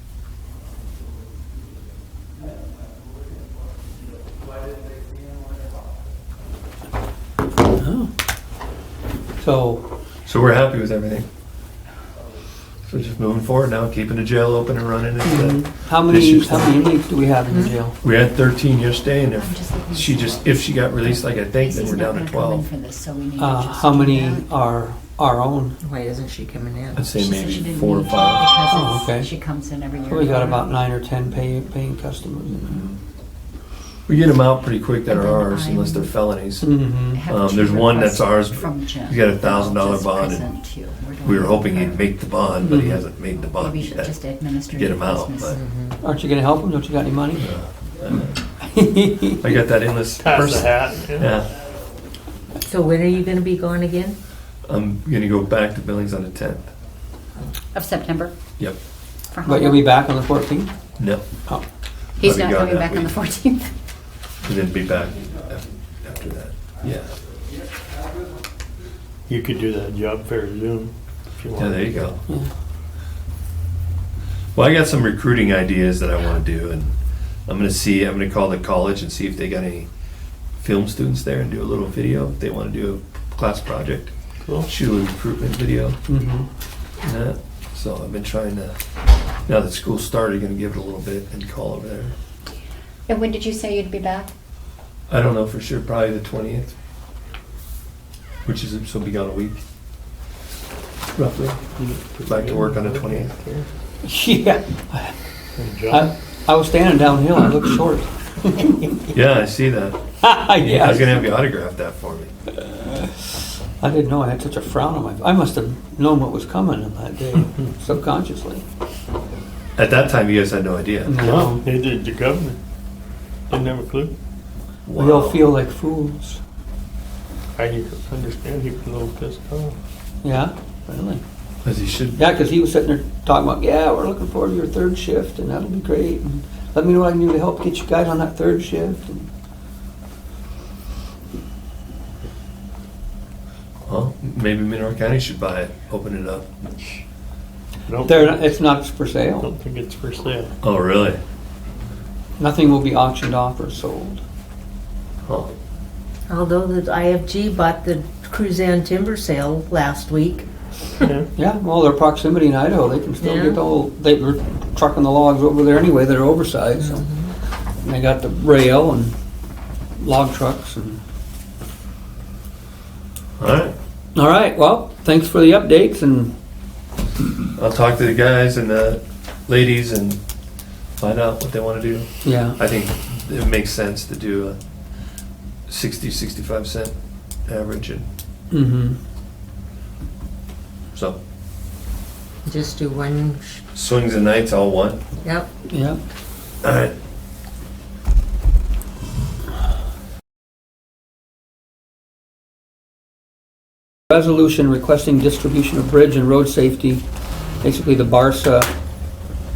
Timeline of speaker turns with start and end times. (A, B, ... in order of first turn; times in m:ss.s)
0:07.8-0:08.1 A
0:09.4-0:09.9 A
0:10.2-0:11.3 B
0:12.9-0:16.8 B
0:15.2-0:18.0 A
0:17.5-0:17.8 C
0:18.0-0:22.7 B
0:19.3-0:24.5 D
0:23.4-0:25.8 A
0:25.8-0:27.0 C
0:27.0-0:28.5 B
0:27.0-0:30.7 D
0:28.7-0:29.3 A
0:30.0-0:32.8 A
0:32.7-0:33.0 B
0:34.1-0:36.8 B
0:35.1-0:36.1 D
0:36.6-0:37.2 A
0:37.1-0:42.2 D
0:37.3-0:40.5 B
0:41.2-0:45.6 B
0:42.6-0:43.0 A
0:43.5-0:45.6 D
0:45.5-0:46.0 C
0:46.0-0:47.5 A
0:47.4-0:48.4 B
0:48.6-0:49.4 A
0:49.4-0:51.5 B
0:50.2-0:51.4 E
0:52.6-0:54.2 C
0:54.7-0:56.7 B
0:57.7-0:58.3 D
0:59.3-0:59.9 D
0:59.4-1:00.7 A
1:01.0-1:01.3 B
1:02.2-1:03.7 D
1:02.2-1:03.2 B
1:04.4-1:07.1 B
1:09.3-1:12.2 E
1:11.6-1:12.2 B
1:14.6-1:17.0 B
1:17.5-1:19.9 B
1:20.6-1:24.1 B
1:24.6-1:26.0 B
1:26.1-1:26.5 A
1:27.0-1:28.8 B
1:29.5-1:32.1 B
1:33.1-1:34.3 D
1:35.1-1:36.8 B
1:38.4-1:39.6 B
1:41.2-1:41.6 B
1:41.7-1:43.7 E
1:42.3-1:43.3 B
1:44.0-1:45.2 A
1:45.6-1:46.1 E
1:45.9-1:49.0 A
1:49.1-1:50.0 B
1:50.2-1:51.3 A
1:50.6-1:52.3 B
1:52.6-1:58.6 A
1:59.8-2:01.2 B
2:01.1-2:01.6 A
2:01.2-2:02.6 E
2:03.5-2:04.1 E
2:04.9-2:05.5 B
2:05.0-2:06.4 A
2:07.6-2:09.8 E
2:10.2-2:11.2 A
2:11.6-2:12.2 B
2:12.2-2:19.3 A
2:23.9-2:26.5 B
2:27.9-2:28.5 E
2:28.0-2:29.5 A
2:29.4-2:30.5 E
2:30.6-2:31.2 B
2:32.4-2:34.2 A
2:35.2-2:35.5 B
2:36.3-2:40.5 C
2:41.0-2:41.3 E
2:41.4-2:47.0 A
2:43.2-2:43.6 C
2:46.8-2:47.3 C
2:47.8-2:49.2 A
2:50.0-2:51.0 A
2:53.4-2:53.8 B
2:54.2-2:56.3 A
2:57.6-3:00.2 B
3:01.0-3:04.6 B
3:02.2-3:02.6 A
3:05.7-3:06.9 B
3:07.5-3:08.1 B
3:08.5-3:09.0 A
3:10.9-3:11.2 B
3:12.4-3:13.6 C
3:13.7-3:15.0 B
3:15.2-3:15.5 C
3:15.7-3:16.0 A
3:16.6-3:16.9 B
3:24.1-3:27.0 A
3:27.6-3:28.7 A